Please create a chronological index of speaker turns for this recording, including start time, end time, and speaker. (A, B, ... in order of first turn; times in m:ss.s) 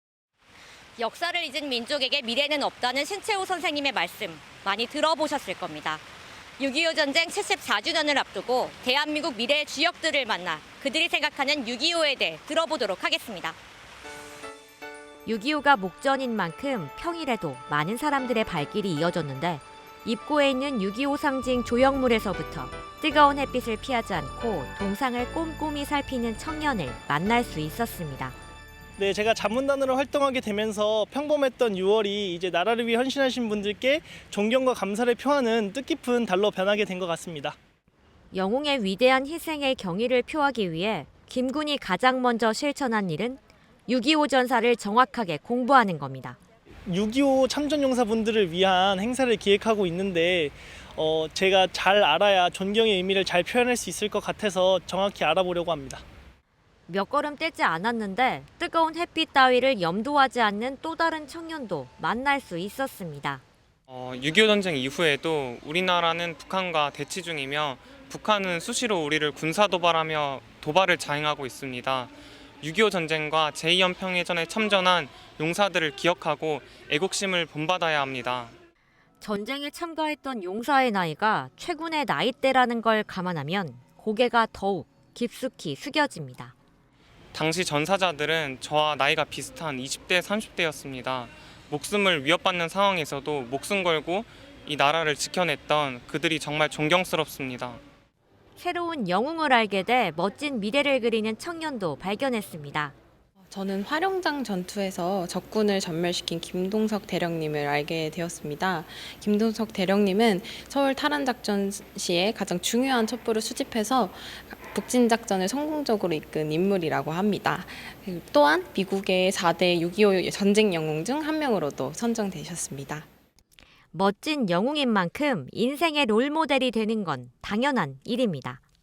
0:01.0-0:06.0 A
0:06.6-0:13.6 A
0:15.2-0:28.4 B
0:29.0-0:37.6 C
0:38.3-0:46.4 B
0:46.9-0:56.0 C
0:56.9-1:03.4 B
1:03.9-1:12.1 D
1:12.6-1:18.5 D
1:19.2-1:26.5 B
1:27.3-1:37.8 D
1:38.6-1:42.9 B
1:43.5-2:03.0 E
2:03.9-2:08.6 B